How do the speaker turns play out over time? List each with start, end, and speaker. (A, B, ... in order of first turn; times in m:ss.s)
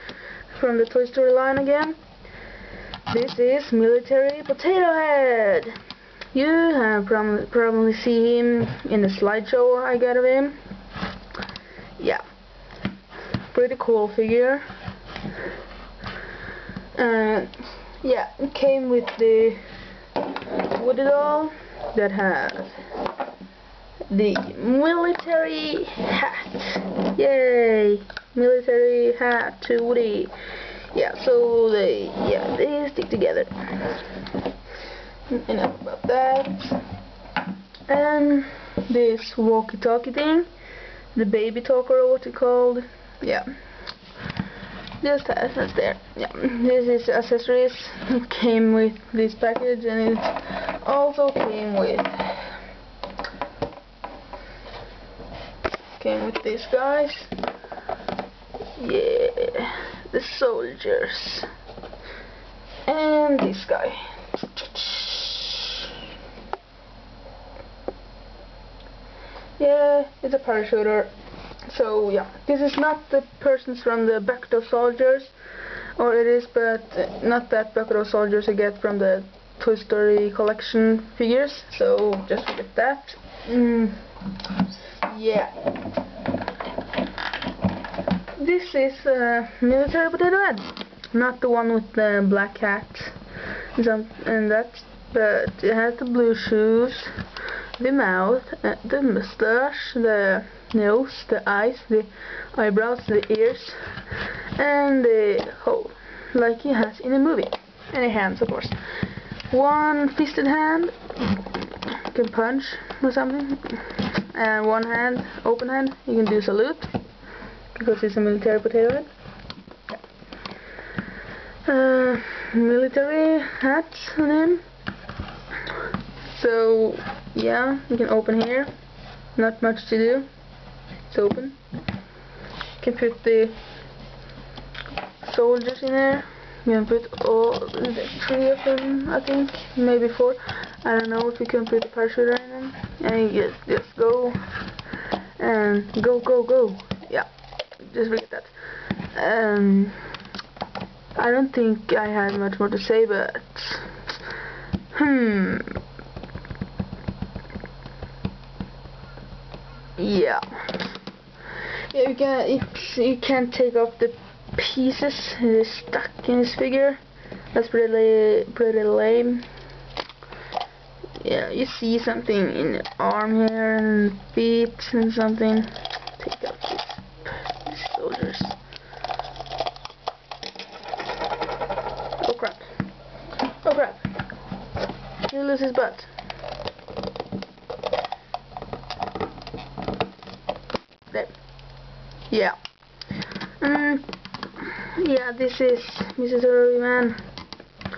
0:00.5-0:02.0 A
0:03.1-0:05.8 A
0:06.3-0:10.6 A
0:12.0-0:12.2 A
0:13.5-0:14.6 A
0:17.0-0:19.6 A
0:20.6-0:22.8 A
0:24.1-0:30.3 A
0:30.9-0:34.0 A
0:35.3-0:36.8 A
0:37.9-0:40.5 A
0:41.1-0:43.5 A
0:45.0-0:52.6 A
0:56.0-0:57.3 A
0:58.8-1:01.5 A
1:02.8-1:05.8 A
1:09.6-1:11.1 A
1:11.6-1:15.3 A
1:16.0-1:24.0 A
1:25.0-1:25.5 A
1:28.4-1:33.2 A
1:33.7-1:37.1 A
1:37.8-1:44.0 A
1:44.5-1:48.8 A
1:49.5-1:56.9 A
1:57.7-1:59.1 A
2:01.6-2:04.6 A
2:06.2-2:08.7 A
2:09.3-2:10.3 A
2:11.1-2:11.6 A
2:12.8-2:13.6 A
2:15.2-2:24.4 A
2:25.4-2:27.3 A
2:27.8-2:30.0 A
2:31.2-2:34.0 A
2:34.9-2:35.8 A
2:40.0-2:40.8 A
2:41.9-2:47.0 A
2:47.5-2:49.5 A
2:51.2-2:58.6 A
3:02.2-3:02.7 A
3:03.6-3:04.0 A
3:05.3-3:06.1 A
3:12.3-3:12.6 A
3:13.6-3:17.2 A